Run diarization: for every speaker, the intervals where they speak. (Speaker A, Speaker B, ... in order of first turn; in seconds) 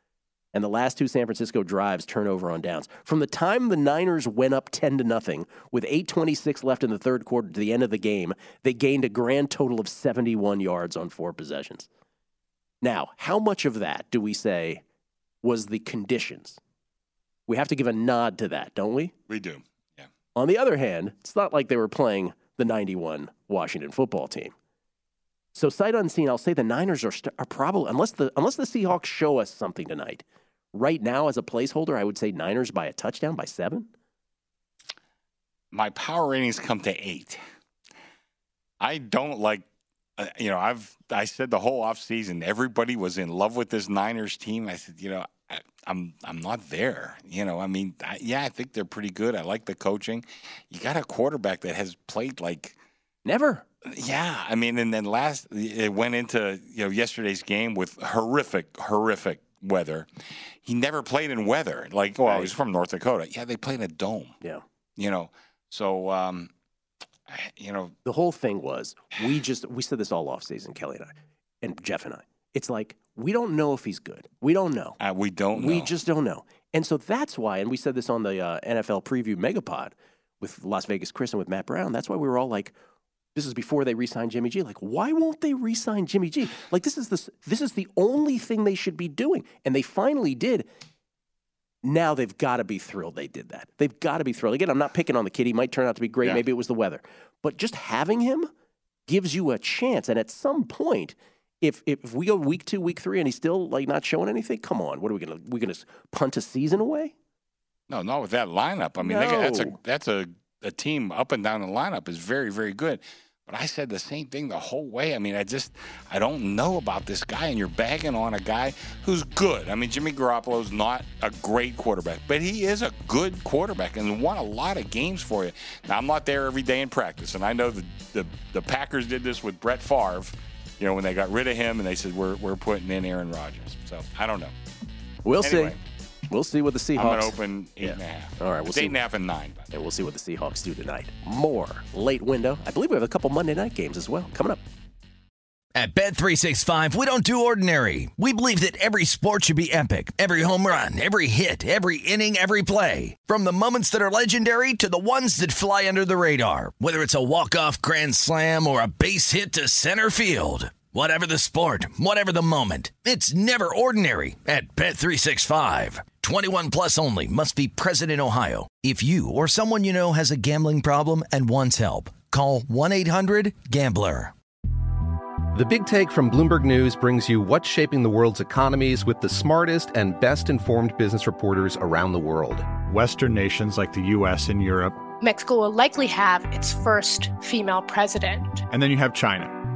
Speaker A: 0.5-11.9, 12.8-14.8, 15.4-16.6, 17.5-19.1, 20.4-24.5, 25.6-30.2, 30.7-33.9, 53.3-53.6, 62.3-62.5, 68.0-75.0, 75.5-82.7, 83.3-90.7, 91.8-98.5, 99.1-107.1, 109.0-109.8, 135.2-135.8, 136.3-139.0, 139.7-144.6
Speaker B: 19.3-20.1, 35.7-37.4, 38.8-39.6, 40.2-52.8, 53.9-60.1, 60.6-64.3, 65.0-66.5, 67.3-67.9, 75.0-75.9, 107.9-134.5, 135.4-135.8, 137.0-139.7
Speaker C: 145.8-174.3
Speaker D: 175.5-182.8
Speaker E: 182.8-185.0, 188.7-189.6
Speaker F: 185.2-188.6